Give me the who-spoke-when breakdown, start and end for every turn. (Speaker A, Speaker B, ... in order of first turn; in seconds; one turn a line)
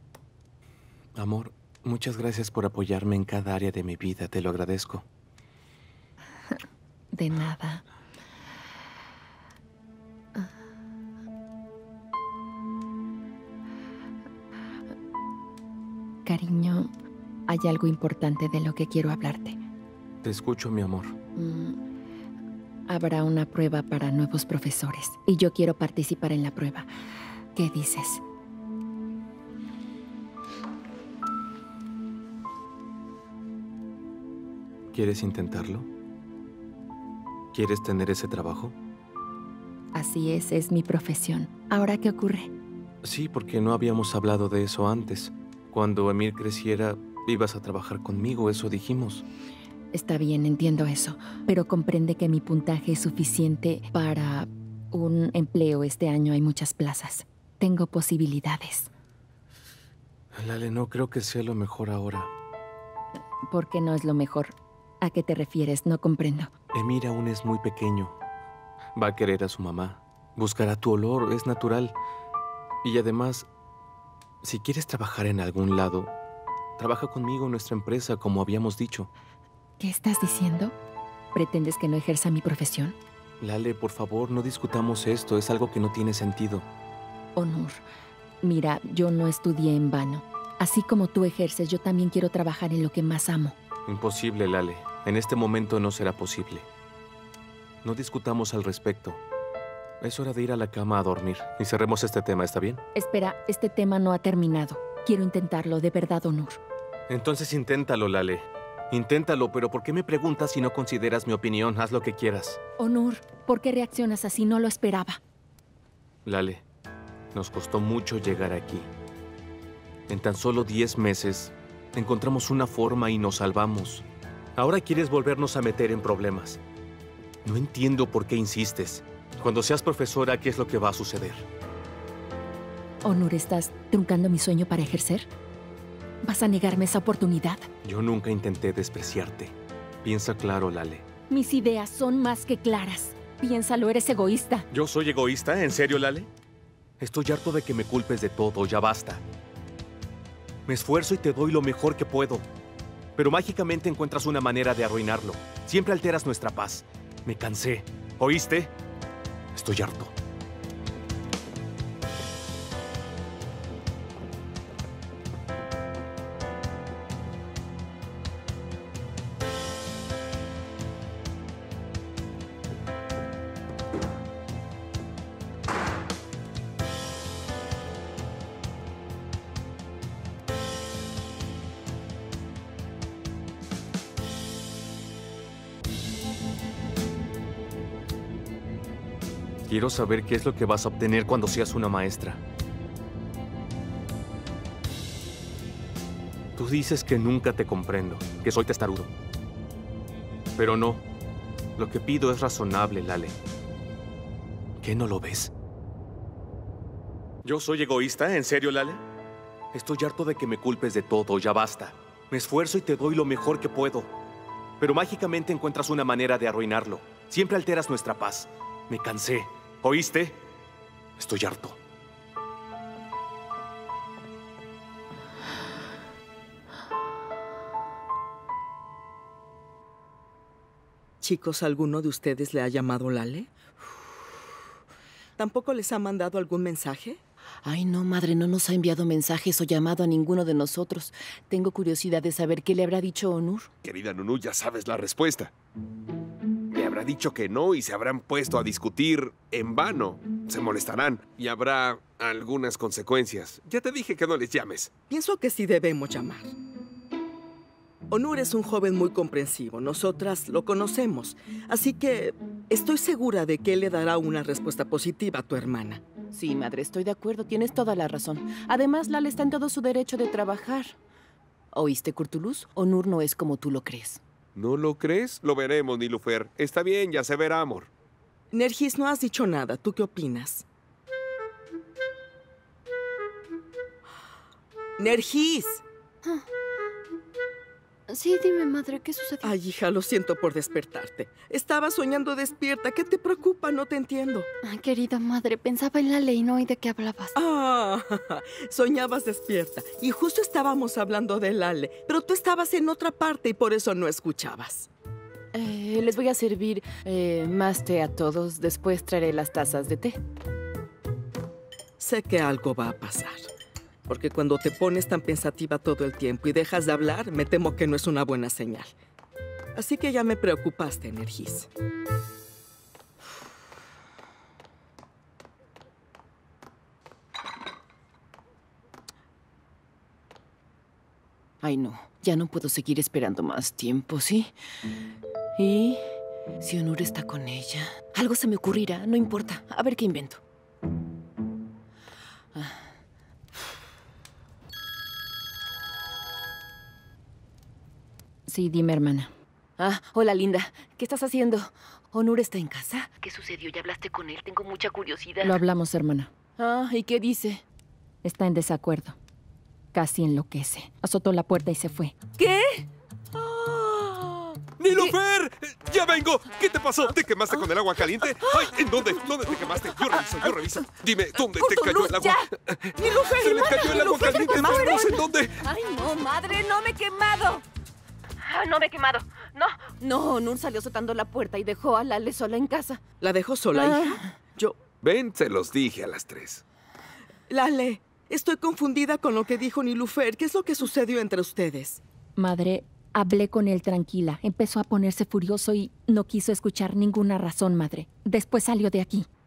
Speaker A: 1.1-5.0
Speaker B: 7.1-7.8
Speaker B: 16.2-16.9
Speaker B: 17.5-19.6
Speaker A: 20.2-21.1
Speaker B: 21.4-21.8
Speaker B: 22.9-26.9
Speaker B: 27.5-28.2
Speaker A: 34.9-35.9
Speaker A: 37.5-38.7
Speaker B: 39.9-42.5
Speaker A: 43.0-49.2
Speaker B: 49.9-58.9
Speaker A: 60.3-62.3
Speaker B: 63.5-66.5
Speaker A: 66.7-68.1
Speaker A: 69.0-71.9
Speaker A: 72.8-73.5
Speaker A: 74.4-76.1
Speaker A: 76.8-79.1
Speaker B: 79.8-80.8
Speaker B: 81.3-83.0
Speaker A: 83.4-86.7
Speaker B: 87.3-87.8
Speaker B: 88.4-93.5
Speaker A: 93.9-96.7
Speaker A: 97.8-99.2
Speaker A: 100.0-102.8
Speaker B: 102.9-106.6
Speaker A: 107.1-112.6
Speaker B: 112.8-115.2
Speaker A: 116.2-116.6
Speaker A: 117.3-118.9
Speaker A: 120.1-124.0
Speaker A: 124.5-126.6
Speaker A: 127.4-131.4
Speaker B: 133.0-135.3
Speaker B: 136.2-137.7
Speaker A: 137.8-141.1
Speaker B: 141.3-144.7
Speaker A: 144.7-146.3
Speaker A: 147.0-149.2
Speaker A: 150.7-152.4
Speaker A: 153.2-158.7
Speaker A: 159.5-160.1
Speaker A: 189.7-192.4
Speaker A: 196.5-199.1
Speaker A: 200.6-201.0
Speaker A: 201.8-203.3
Speaker A: 204.8-205.5
Speaker A: 207.4-209.0
Speaker A: 209.7-214.1
Speaker A: 214.8-220.4
Speaker A: 221.2-221.8
Speaker C: 231.2-233.5
Speaker C: 235.4-237.2
Speaker D: 237.6-243.7
Speaker E: 243.8-245.5
Speaker E: 246.7-254.9
Speaker C: 255.1-256.5
Speaker C: 258.1-266.0
Speaker D: 266.3-271.0
Speaker D: 271.7-274.2
Speaker E: 274.5-277.9
Speaker C: 278.5-280.6
Speaker C: 285.0-285.8
Speaker F: 288.1-289.6
Speaker C: 289.4-294.5
Speaker F: 294.6-297.3
Speaker C: 297.3-304.9
Speaker D: 305.5-310.2
Speaker C: 312.0-313.4
Speaker C: 314.1-318.9
Speaker C: 319.8-321.7
Speaker D: 331.6-334.5
Speaker D: 335.6-336.0
Speaker D: 336.6-340.4
Speaker D: 342.5-342.9
Speaker B: 348.5-349.3
Speaker D: 349.8-355.6
Speaker B: 355.4-356.3
Speaker D: 356.6-357.6
Speaker B: 358.2-359.1
Speaker B: 359.9-362.1
Speaker D: 362.4-362.8
Speaker D: 363.4-364.5
Speaker E: 364.8-375.6
Speaker D: 371.6-372.3
Speaker C: 373.0-375.2
Speaker D: 373.7-374.0
Speaker D: 375.6-377.6
Speaker D: 378.5-383.0
Speaker C: 383.2-384.8
Speaker D: 383.7-384.1
Speaker E: 385.0-386.6
Speaker C: 387.5-392.0
Speaker B: 392.4-399.3